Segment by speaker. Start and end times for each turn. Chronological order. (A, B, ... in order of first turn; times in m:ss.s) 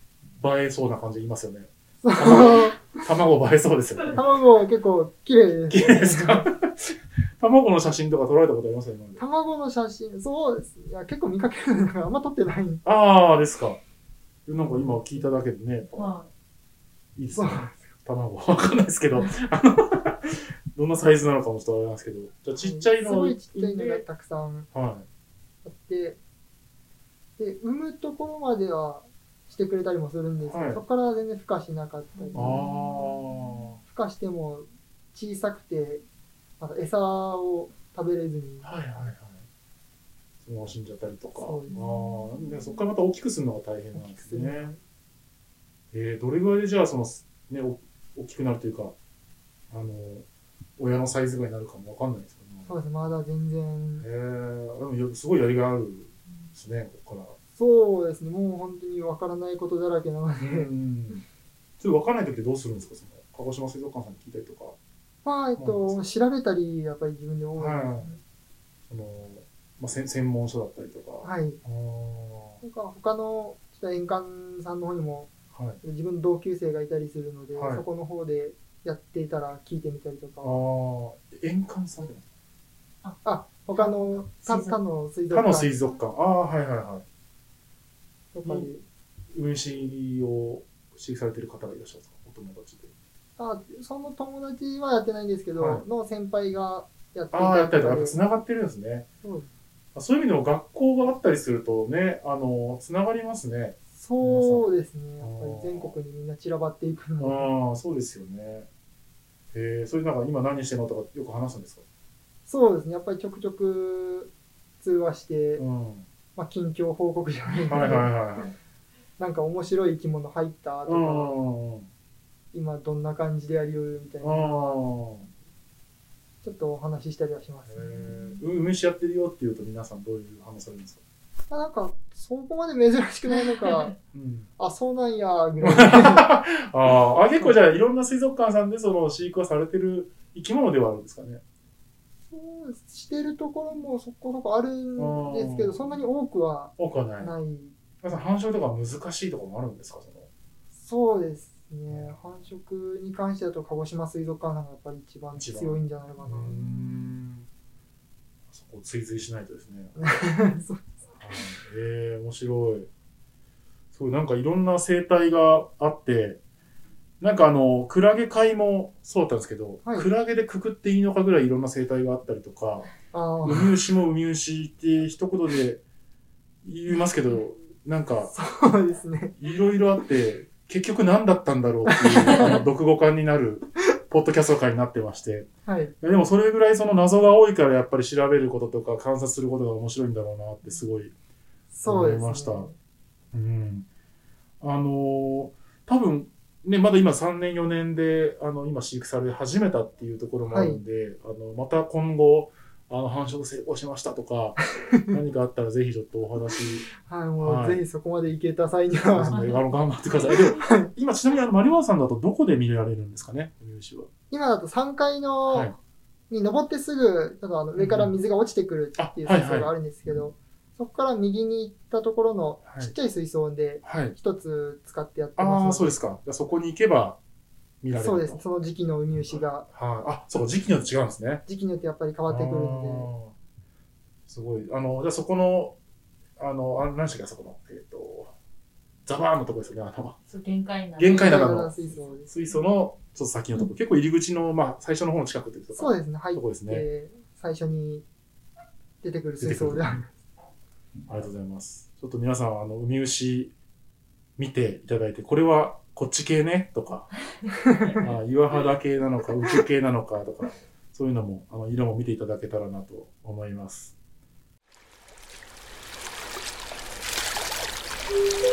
0:00.3-0:04.3 A
0:02.0-0:03.1 B
0:04.1-0:06.5 B
0:05.7-0:09.2 A
0:09.2-0:12.8 B
0:12.8-0:13.8 A
0:14.4-0:16.1 A
0:14.6-0:15.2 B
0:15.9-0:16.3 C
0:17.2-0:24.0 A
0:17.3-0:17.9 B
0:22.6-0:24.7 B
0:24.7-0:25.0 A
0:25.6-0:26.2 B
0:27.4-0:32.7 B
0:30.4-0:30.8 A
0:32.3-0:33.8 A
0:33.8-0:36.0 B
0:36.6-0:38.8 B
0:38.6-0:39.4 A
0:40.4-0:44.7 A
0:41.4-0:41.9 B
0:43.9-0:44.8 B
0:45.9-0:48.9 A
0:49.7-0:50.2 A
0:50.8-0:52.7 A
0:52.6-0:54.1 B
0:54.0-0:57.3 A
0:57.6-1:00.7 B
1:00.4-1:01.2 A
1:01.8-1:04.8 A
1:05.2-1:08.2 B
1:05.6-1:06.0 A
1:07.6-1:08.1 A
1:08.9-1:12.6 A
1:11.2-1:11.6 B
1:12.6-1:15.3 B
1:15.5-1:15.8 A
1:15.8-1:20.6 B
1:17.5-1:17.8 A
1:20.4-1:22.2 A
1:23.2-1:25.8 B
1:23.7-1:24.8 C
1:25.3-1:27.0 A
1:28.3-1:28.8 B
1:28.4-1:28.7 A
1:29.3-1:32.9 A
1:33.4-1:38.2 B
1:35.6-1:35.8 A
1:37.3-1:39.0 A
1:39.2-1:39.5 B
1:39.9-1:44.6 A
1:43.9-1:47.5 B
1:45.2-1:46.0 A
1:47.2-1:48.7 A
1:49.5-1:51.8 A
1:52.5-1:55.6 B
1:55.6-1:56.1 A
1:56.3-1:58.1 B
1:57.7-1:58.5 A
1:59.2-2:01.3 B
2:00.9-2:01.9 A
2:02.5-2:04.8 B
2:04.2-2:05.3 A
2:06.4-2:08.4 B
2:07.7-2:11.0 A
2:11.5-2:14.0 B
2:14.1-2:14.5 A
2:14.6-2:16.3 B
2:15.6-2:21.4 A
2:22.3-2:27.7 B
2:25.0-2:25.9 A
2:26.8-2:27.3 A
2:28.0-2:30.3 A
2:30.8-2:36.7 B
2:31.9-2:32.5 A
2:35.4-2:37.5 A
2:38.5-2:40.0 A
2:40.0-2:41.0 B
2:41.2-2:42.9 A
2:43.9-2:46.4 A
2:47.2-2:52.9 A
2:53.1-2:53.8 B
2:53.4-2:55.8 A
2:56.6-2:58.3 A
2:58.3-2:59.4 B
2:59.4-3:05.5 A
3:01.8-3:02.6 B
3:05.6-3:05.9 B
3:06.0-3:11.1 A
3:11.7-3:12.7 B
3:11.8-3:12.7 A
3:13.3-3:13.9 A
3:14.6-3:26.9 A
3:20.5-3:20.8 B
3:24.8-3:25.1 B
3:27.0-3:29.4 B
3:27.4-3:27.8 A
3:29.1-3:34.1 A
3:29.3-3:29.6 C
3:30.6-3:30.9 B
3:34.3-3:35.7 B
3:35.5-3:35.7 A
3:36.3-3:45.9 B
3:37.8-3:38.1 A
3:39.0-3:39.7 A
3:42.6-3:42.9 A
3:43.8-3:44.1 A
3:45.4-3:47.2 A
3:47.8-3:48.4 A
3:47.9-3:49.7 B
3:49.7-3:51.4 A
3:51.5-3:53.1 B
3:52.3-3:53.3 A
3:54.3-3:55.8 A
3:56.4-3:58.3 A
3:59.0-4:00.2 A
4:00.3-4:01.5 C
4:01.0-4:06.8 A
4:01.1-4:02.3 B
4:05.7-4:08.0 B
4:09.0-4:10.1 B
4:09.4-4:10.0 A
4:11.1-4:13.5 A
4:14.4-4:17.1 A
4:17.7-4:18.0 B
4:17.9-4:23.9 A